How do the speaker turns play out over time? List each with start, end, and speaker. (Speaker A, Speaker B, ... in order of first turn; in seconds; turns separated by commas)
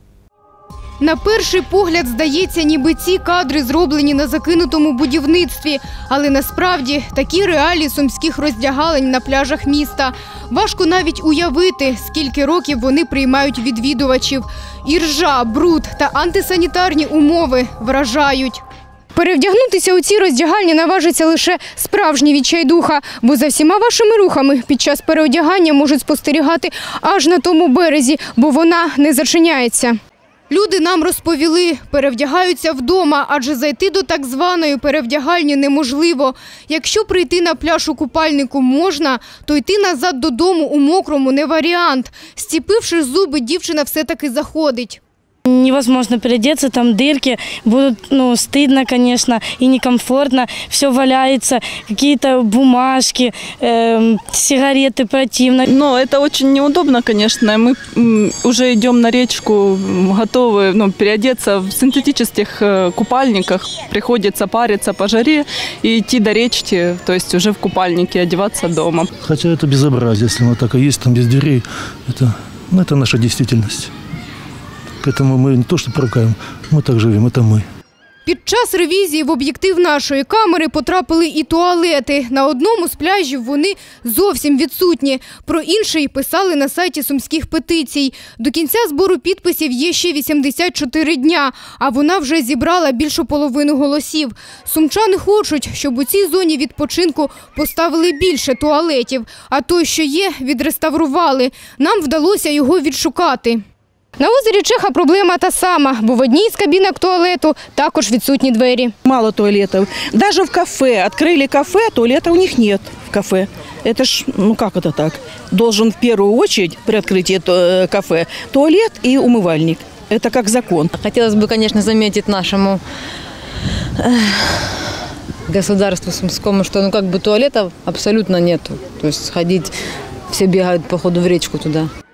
Speaker A: 1.0-18.6, Speaker A: 19.1-30.0, Speaker A: 30.5-45.0, Speaker B: 45.5-55.7, Speaker C: 55.7-69.1, Speaker D: 69.2-73.9, Speaker D: 75.0-77.7, Speaker A: 78.3-103.6, Speaker A: 104.2-108.9, Speaker E: 109.1-120.9, Speaker F: 120.9-122.8, Speaker F: 124.0-124.8, Speaker F: 125.5-129.7, Speaker F: 130.3-131.9